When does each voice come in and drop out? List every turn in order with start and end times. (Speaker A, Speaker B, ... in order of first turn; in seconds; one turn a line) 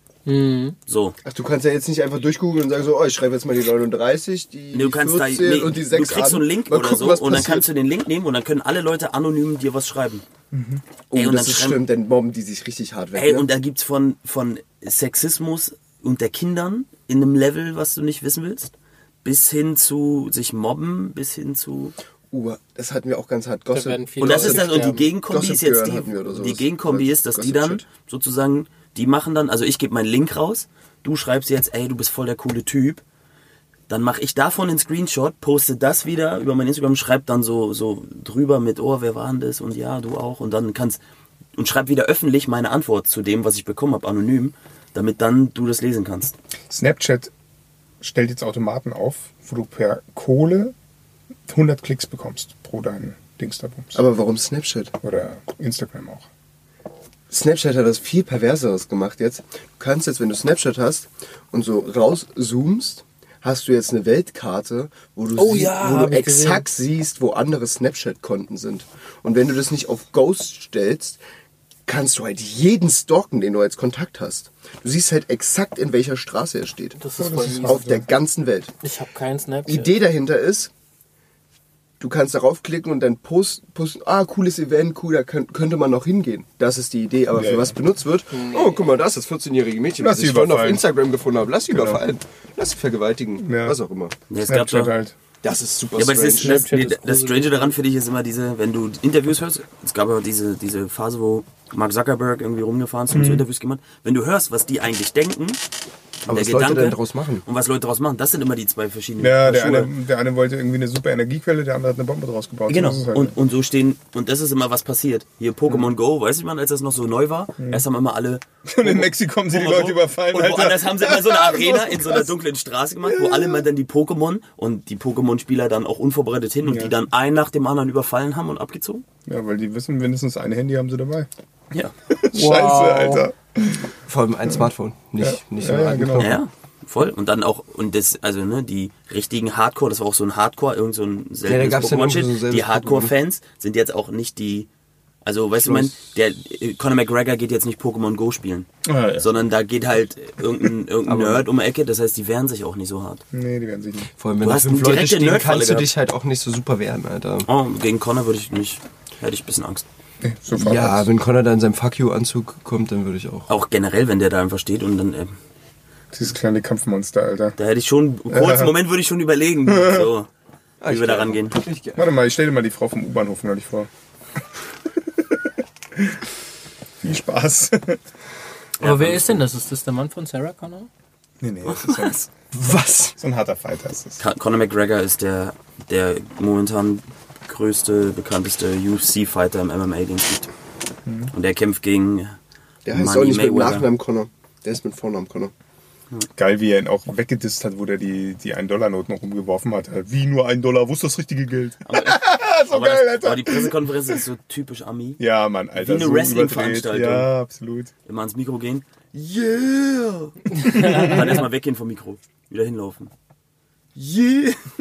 Speaker A: 0.2-0.8
Speaker B: 0.9-1.1
Speaker C: 1.2-7.7
Speaker B: 4.7-10.2
Speaker D: 10.5-10.8
Speaker C: 11.1-13.5
Speaker B: 11.1-11.8
Speaker B: 13.1-18.7
Speaker B: 19.2-21.9
Speaker C: 22.3-27.8
Speaker A: 23.7-25.0
Speaker B: 24.2-33.0
Speaker B: 33.9-41.0
Speaker B: 41.5-46.3
Speaker D: 46.7-47.3
Speaker D: 48.0-50.7
Speaker D: 51.5-54.0
Speaker C: 53.9-54.9
Speaker D: 55.0-56.3
Speaker C: 57.3-71.2
Speaker A: 65.3-66.6
Speaker C: 71.8-77.0
Speaker A: 77.0-77.8
Speaker D: 77.2-78.1
Speaker C: 77.7-78.7
Speaker A: 78.8-80.0
Speaker C: 79.7-80.7
Speaker C: 82.0-94.1
Speaker D: 87.3-87.8
Speaker A: 88.3-88.9
Speaker D: 90.0-90.8
Speaker D: 91.7-92.0
Speaker D: 93.4-93.8
Speaker B: 94.3-94.9
Speaker D: 94.4-95.2
Speaker C: 95.4-96.7
Speaker B: 96.0-105.6
Speaker A: 96.3-97.8
Speaker D: 103.1-103.5
Speaker B: 106.2-109.9
Speaker C: 106.3-107.4
Speaker D: 109.2-113.3
Speaker B: 112.7-129.0
Speaker D: 117.6-117.8
Speaker D: 118.7-122.3
Speaker D: 123.2-123.5
Speaker D: 126.7-126.9
Speaker D: 129.2-131.3
Speaker D: 132.1-133.9
Speaker A: 132.3-133.2
Speaker C: 134.1-136.4
Speaker D: 135.2-136.4
Speaker B: 136.2-144.7
Speaker C: 141.4-143.1
Speaker B: 145.2-153.2
Speaker C: 145.6-145.9
Speaker D: 148.8-149.3
Speaker C: 151.1-151.4
Speaker D: 153.3-154.1
Speaker C: 154.2-157.5
Speaker B: 154.4-155.9
Speaker B: 157.4-159.8
Speaker D: 160.2-161.1
Speaker C: 160.5-163.5
Speaker B: 163.5-165.3
Speaker D: 166.1-167.6
Speaker B: 167.6-170.3
Speaker D: 168.3-168.7
Speaker D: 169.7-170.1
Speaker C: 170.8-172.0
Speaker B: 170.8-171.6
Speaker D: 171.9-173.9
Speaker D: 174.9-176.2
Speaker D: 177.0-178.0
Speaker B: 178.8-179.4
Speaker A: 178.8-180.9
Speaker D: 181.4-182.3
Speaker C: 181.8-183.2
Speaker D: 183.2-184.2
Speaker B: 184.2-190.5
Speaker D: 191.1-191.3
Speaker B: 191.3-192.4
Speaker C: 192.8-195.5
Speaker B: 192.9-193.9
Speaker D: 196.3-204.2
Speaker B: 201.8-205.2
Speaker D: 205.2-207.9
Speaker B: 205.8-207.3
Speaker B: 208.1-208.8
Speaker C: 209.1-210.3
Speaker D: 210.6-211.4
Speaker B: 210.8-213.1
Speaker C: 213.9-214.7